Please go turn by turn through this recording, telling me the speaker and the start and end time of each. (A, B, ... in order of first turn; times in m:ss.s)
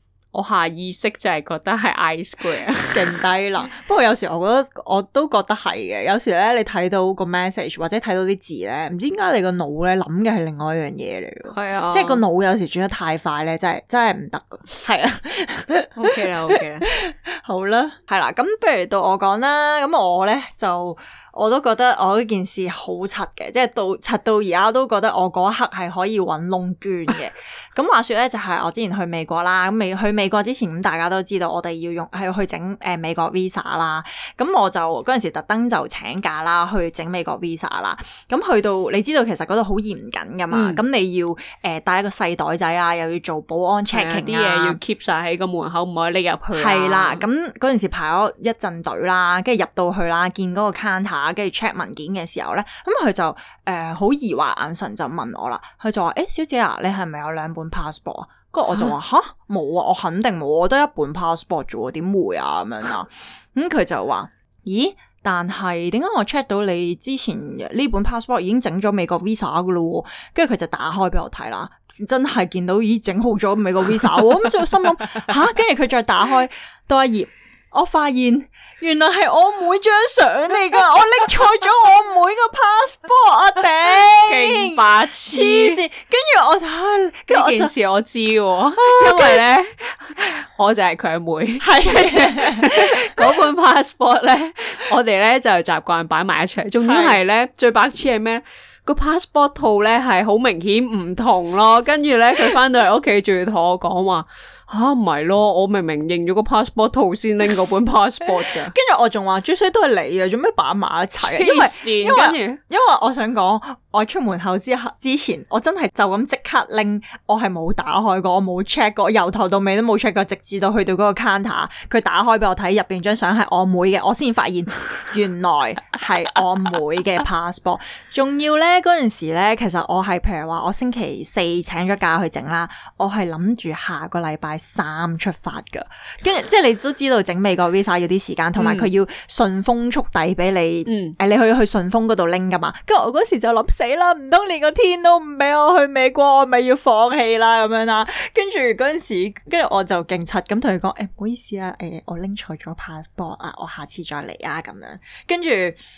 0:00.3-0:03.2 A
0:02.9-0:44.8 B
0:11.5-0:12.2 A
0:15.9-0:16.9 A
0:40.5-0:40.8 A
0:43.9-0:47.2 A
0:46.5-1:27.7 B
0:58.7-0:58.9 A
1:24.3-1:25.8 A
1:27.3-1:48.7 A
1:28.8-1:29.4 B
1:31.6-1:33.2 B
1:36.8-1:37.2 B
1:48.6-2:35.8 B
1:51.2-1:52.6 A
2:18.6-2:18.9 A
2:20.9-2:21.2 A